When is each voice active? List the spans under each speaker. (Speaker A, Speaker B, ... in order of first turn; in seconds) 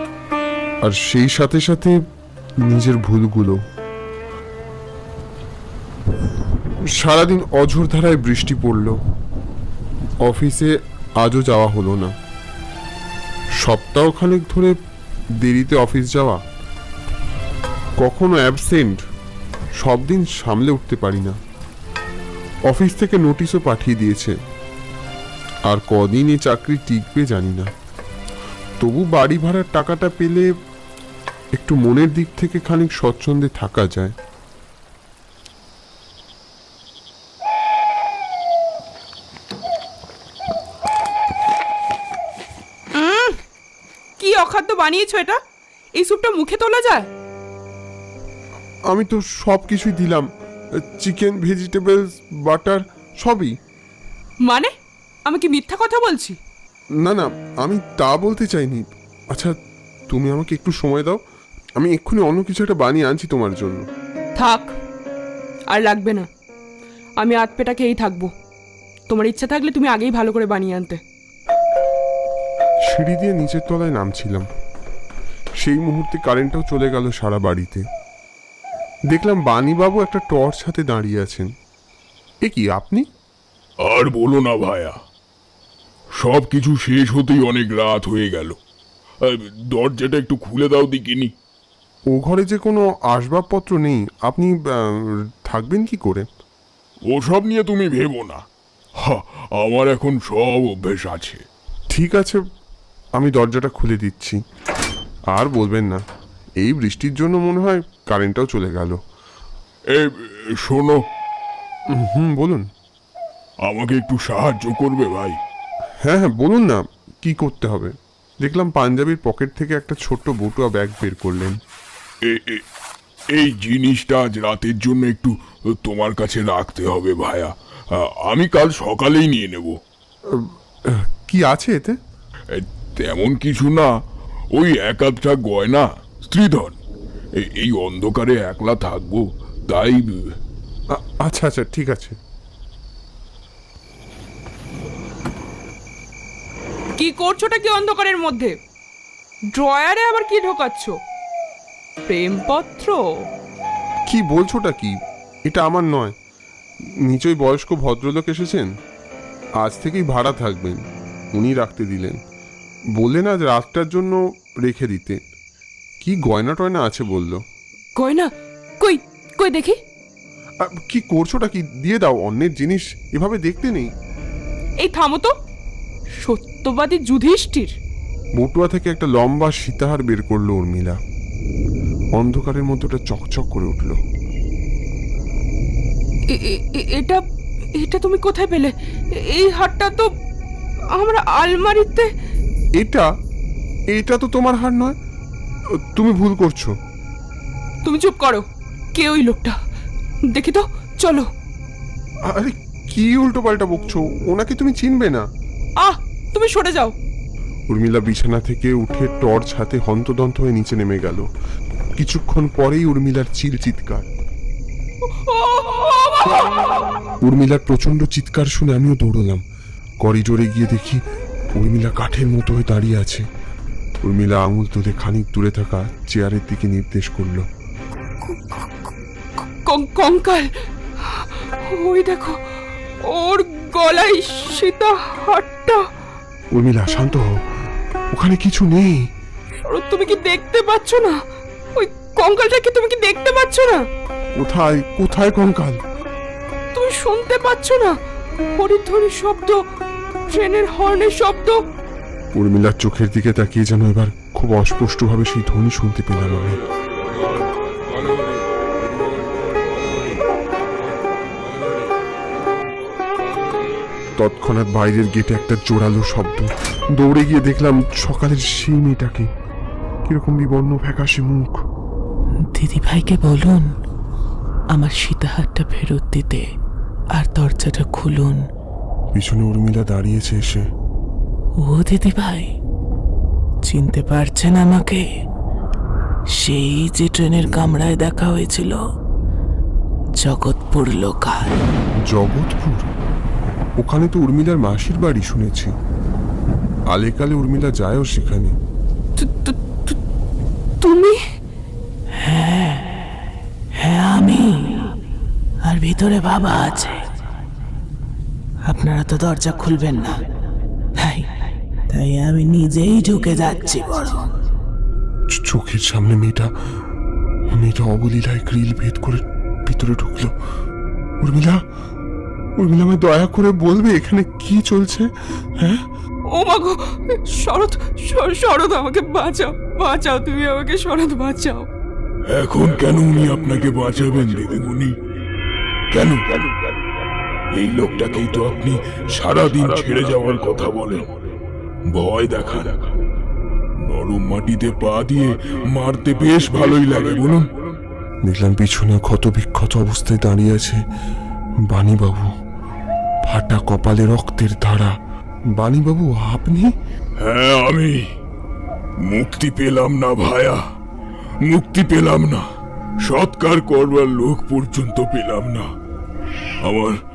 Speaker A: 0.8-2.0, 2.6-3.6, 7.0-9.0, 10.2-12.1, 13.6-14.8, 15.4-16.4, 18.0-19.0, 19.8-21.4, 22.7-24.4, 25.7-27.7, 28.8-30.5, 31.6-34.1, 48.9-50.3, 50.8-53.5, 57.0-59.5, 60.1-61.2, 61.8-63.9, 72.9-74.5, 75.6-77.8, 79.1-81.5, 82.4-83.0, 92.1-96.3, 101.9-102.4, 103.2-104.4, 105.3-106.0, 106.6-109.0, 111.9-112.7, 116.0-121.6, 130.3-132.0, 140.9-142.2, 154.1-154.9, 155.5-156.1, 157.0-158.7, 159.6-160.8, 161.3-162.2, 163.0-165.2, 166.0-167.4, 170.6-173.9, 178.4-181.0, 182.2-184.0, 192.8-193.1, 193.9-195.0, 195.9-196.8, 202.3-205.2, 207.7-211.3, 212.0-214.1, 217.2-219.4, 220.0-221.0, 221.6-223.3, 224.0-227.4, 236.5-237.4, 238.1-239.0, 244.4-245.8, 252.3-256.6, 264.2-269.3, 270.1-271.6, 279.1-280.6, 292.1-292.9, 293.8-295.7, 296.9-298.5, 315.3-316.5, 317.5-320.3, 321.2-321.6, 322.6-325.8, 348.2-350.8, 351.7-352.3, 353.2-354.9, 355.6-356.7
Speaker B: 42.9-43.4, 44.2-45.4, 46.0-47.1, 54.5-54.7, 55.3-56.4, 64.4-64.7, 65.7-66.3, 67.2-68.3, 69.1-71.0, 147.0-148.6, 149.5-151.0, 152.1-153.0, 168.0-169.8, 174.8-175.3, 176.2-177.8, 186.3-187.2, 187.8-190.1, 190.9-192.1, 197.8-199.6, 200.3-201.3, 205.8-206.9, 215.1-216.6, 228.2-228.7, 229.7-232.4, 233.1-235.8, 239.7-241.2, 241.8-243.8, 246.7-248.0, 248.6-249.6, 250.3-251.6, 299.2-300.0, 300.8-301.2, 326.3-331.7
Speaker C: 83.8-85.0, 86.2-88.6, 89.2-91.3, 97.1-98.4, 99.0-101.4, 110.0-111.0, 113.7-115.4, 122.3-122.6, 123.3-129.8, 132.5-133.9, 134.5-136.8, 137.4-140.2, 332.3-334.9, 335.9-336.2, 337.6-341.1, 341.9-342.9, 343.9-347.5, 357.2-358.0, 359.1-360.6, 361.4-362.4, 363.1-365.7, 366.6-367.0
Speaker D: 272.5-273.7, 274.7-276.5, 277.2-278.4, 281.6-282.5, 283.7-285.1, 286.4-288.8, 290.2-291.6, 302.2-302.9, 303.8-304.9, 305.6-307.1, 308.7-310.2, 311.0-311.3, 311.9-314.3